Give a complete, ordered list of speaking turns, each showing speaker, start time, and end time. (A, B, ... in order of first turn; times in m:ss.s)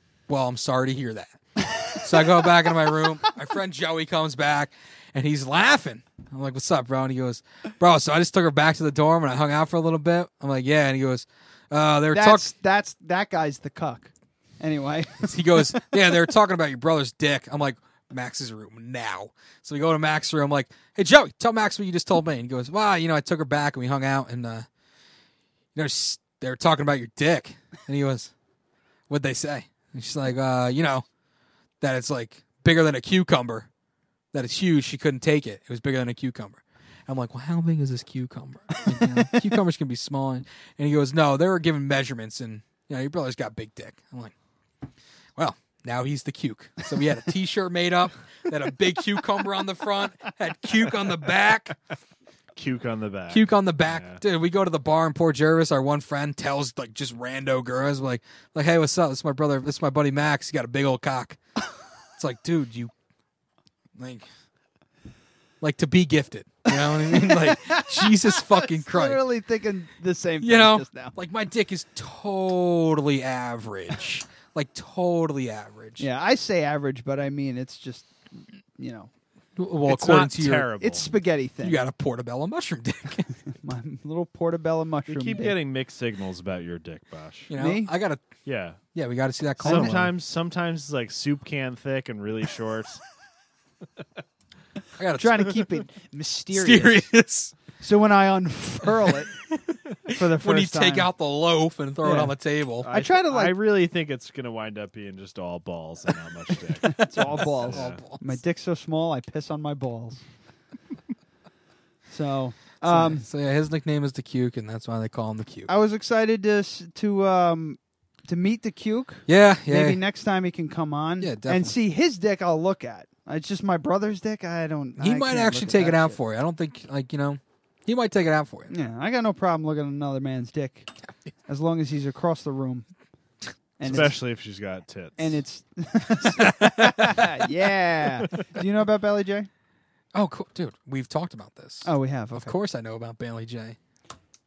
0:00.3-0:12.5 A
0:12.1-0:15.4 B
0:15.2-0:24.7 A
0:25.8-0:28.3 A
0:29.1-0:31.0 A
0:31.8-0:33.7 A
0:34.3-0:44.3 A
0:45.4-0:51.8 A
0:52.6-0:54.2 C
0:53.3-1:01.4 A
1:02.2-1:02.9 A
1:04.0-1:04.3 A
1:05.6-1:09.2 A
1:06.7-1:11.2 B
1:10.4-1:16.1 A
1:16.0-1:19.1 B
1:19.6-1:20.7 A
1:19.9-1:21.1 C
1:20.8-1:21.8 B
1:21.6-1:23.3 A
1:23.6-1:25.6 B
1:25.1-1:27.5 C
1:27.5-1:28.3 A
1:27.5-1:27.9 B
1:28.4-1:28.8 C
1:28.9-1:30.1 A
1:29.6-1:33.0 C
1:29.6-1:30.0 B
1:35.0-1:35.6 A
1:35.2-1:37.1 B
1:36.5-1:37.5 A
1:37.8-1:39.3 B
1:40.1-1:41.1 B
1:40.1-1:42.9 A
1:42.0-1:42.3 B
1:42.8-1:48.0 C
1:42.9-1:43.6 B
1:46.9-1:50.2 B
1:47.0-1:48.4 A
1:52.1-1:53.2 B
1:52.8-1:55.7 A
1:55.7-2:06.2 B
1:59.3-2:00.0 A
2:01.2-2:01.8 A
2:05.0-2:08.7 A
2:08.7-2:10.9 B
2:11.5-2:12.9 B
2:13.8-2:14.2 B
2:13.8-2:15.4 C
2:15.2-2:19.5 B
2:16.4-2:17.1 A
2:20.1-2:23.8 A
2:21.8-2:22.6 B